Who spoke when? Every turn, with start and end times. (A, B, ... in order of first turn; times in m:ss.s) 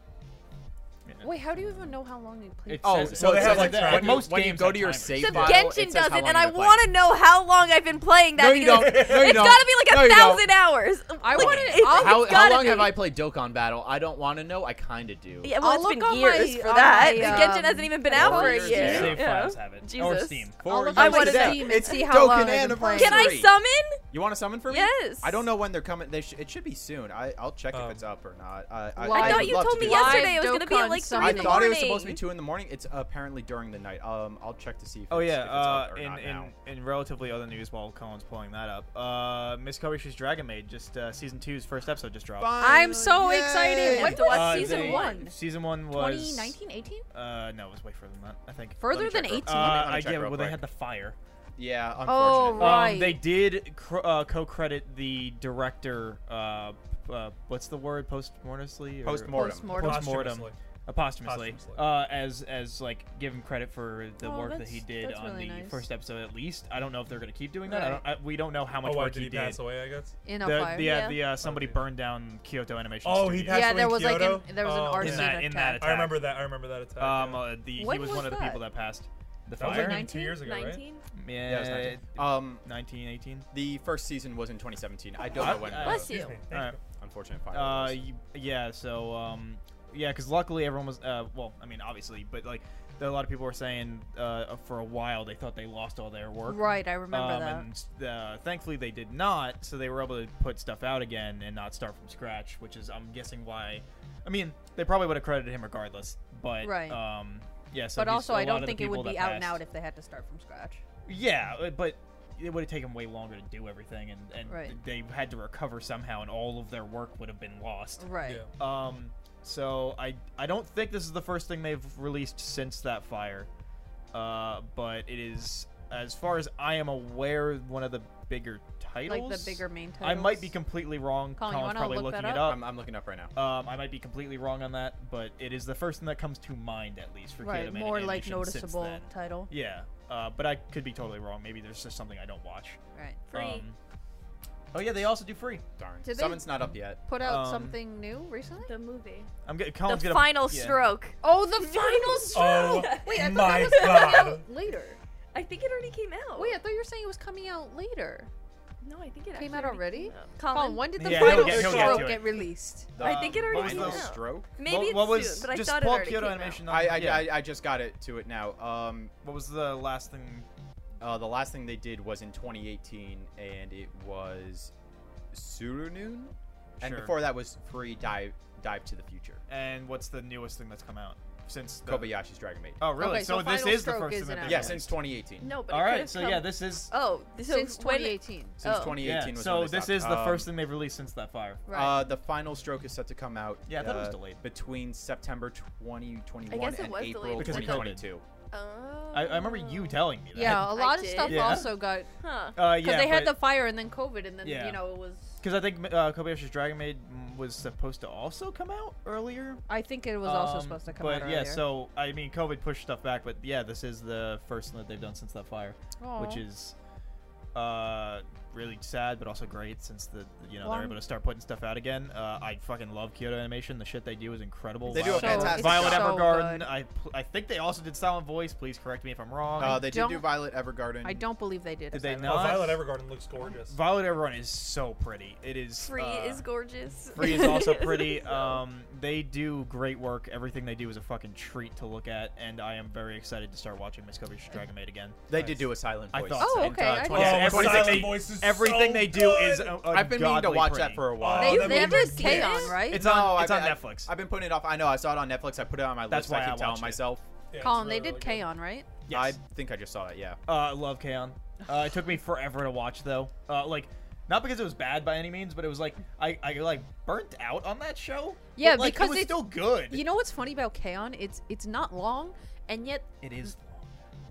0:01.1-0:01.8 A
0:01.2-0:03.3 B
0:02.7-0:05.6 A
0:02.8-0:06.9 C
0:03.1-0:04.4 D
0:05.2-0:13.0 E
0:08.4-0:10.5 C
0:08.7-0:09.6 D
0:11.2-0:12.5 B
0:11.3-0:15.5 C
0:15.4-0:22.4 E
0:15.6-0:19.1 B
0:17.0-0:17.6 C
0:18.1-0:19.3 C
0:18.7-0:21.7 A
0:20.6-0:23.5 C
0:20.6-0:23.4 B
0:22.9-0:24.0 E
0:24.1-0:30.4 C
0:24.7-0:25.4 E
0:27.7-0:28.0 D
0:29.0-0:31.7 B
0:29.1-0:32.2 E
0:31.1-0:36.5 C
0:35.1-0:42.9 A
0:42.4-0:44.3 C
0:42.6-0:45.4 B
0:43.8-0:45.3 E
0:44.0-0:46.6 A
0:45.9-0:47.1 B
0:47.1-0:51.2 A
0:48.8-0:50.0 B
0:49.3-0:50.6 C
0:51.6-0:52.9 C
0:52.0-0:53.2 B
0:52.6-1:09.6 A
0:59.0-0:59.8 C
0:59.3-1:00.2 B
0:59.7-1:00.6 D
1:01.2-1:01.9 D
1:04.2-1:05.8 B
1:07.7-1:08.0 B
1:08.8-1:10.1 D
1:10.2-1:11.0 B
1:10.4-1:13.7 A
1:10.8-1:11.2 E
1:11.4-1:11.8 D
1:13.0-1:17.5 D
1:13.5-1:16.0 B
1:15.0-1:16.3 A
1:17.0-1:20.1 A
1:17.8-1:18.7 B
1:19.6-1:20.8 D
1:19.6-1:20.4 B
1:19.8-1:21.0 E
1:21.2-1:23.5 A
1:21.4-1:22.6 C
1:23.5-1:26.1 C
1:25.3-1:26.8 A
1:25.4-1:26.4 E
1:25.8-1:26.8 D
1:27.0-1:28.0 C
1:27.5-1:49.6 A
1:36.5-1:37.7 B
1:46.6-1:47.0 B
1:48.0-1:50.8 B
1:51.1-1:58.0 A
1:54.5-1:54.8 B
1:58.0-1:58.4 B
1:58.6-2:03.5 A
2:04.1-2:12.7 A
2:09.1-2:10.5 B
2:11.4-2:12.6 B
2:12.4-2:13.3 C
2:13.4-2:22.8 A
2:17.4-2:19.5 B
2:23.3-2:23.6 E
2:23.3-2:23.8 A
2:24.7-2:25.6 A
2:25.8-2:27.0 C
2:26.0-2:28.7 B
2:27.2-2:27.8 A
2:28.6-2:29.3 E
2:29.4-2:30.9 A
2:29.8-2:34.4 E
2:31.2-2:35.0 B
2:32.3-2:34.4 D
2:35.3-2:36.6 E
2:36.4-2:38.3 B
2:38.8-2:41.1 E
2:39.3-2:42.9 B
2:41.0-2:42.4 A
2:41.1-2:42.2 D
2:43.0-2:44.5 C
2:43.0-2:46.6 E
2:43.0-2:47.4 A
2:46.7-2:49.1 C
2:49.2-2:50.5 A
2:51.0-2:54.7 C
2:55.3-2:59.4 C
2:56.8-2:57.3 A
2:59.5-3:02.2 A
3:01.8-3:02.8 C
3:02.8-3:05.0 A
3:03.0-3:04.8 B
3:04.4-3:05.5 C
3:05.4-3:09.1 E
3:05.7-3:06.9 A
3:07.4-3:08.6 B
3:08.6-3:10.5 C
3:09.0-3:11.6 A
3:11.7-3:12.1 B
3:11.7-3:18.2 C
3:13.7-3:14.4 A
3:16.5-3:18.0 E
3:17.4-3:18.1 A
3:18.5-3:21.7 E
3:19.1-3:21.8 A
3:20.3-3:25.4 B
3:22.2-3:22.6 E
3:22.6-3:23.4 A
3:24.4-3:24.8 A
3:25.4-3:29.6 A
3:29.7-3:31.7 B
3:30.2-3:36.8 A
3:36.0-3:36.5 B
3:37.5-3:49.9 A
3:40.6-3:41.0 B
3:44.9-3:46.3 C
3:44.9-3:46.7 B
3:49.6-3:51.2 C
3:49.6-3:52.8 B
3:51.9-3:52.8 A
3:52.2-3:53.8 D
3:53.4-3:56.4 A
3:55.8-3:58.3 E
3:57.1-4:05.3 A
4:05.3-4:08.3 C
4:06.1-4:11.4 A
4:06.4-4:07.7 B
4:07.1-4:09.9 D
4:09.9-4:12.0 C
4:11.1-4:12.8 D
4:11.3-4:13.1 B
4:12.2-4:12.8 E
4:12.8-4:14.1 A
4:12.9-4:17.2 C
4:16.1-4:17.0 A
4:17.5-4:18.5 D
4:17.6-4:18.9 B
4:19.1-4:19.4 A
4:19.1-4:20.4 C
4:20.5-4:30.0 A
4:28.6-4:33.5 B
4:33.2-4:33.9 A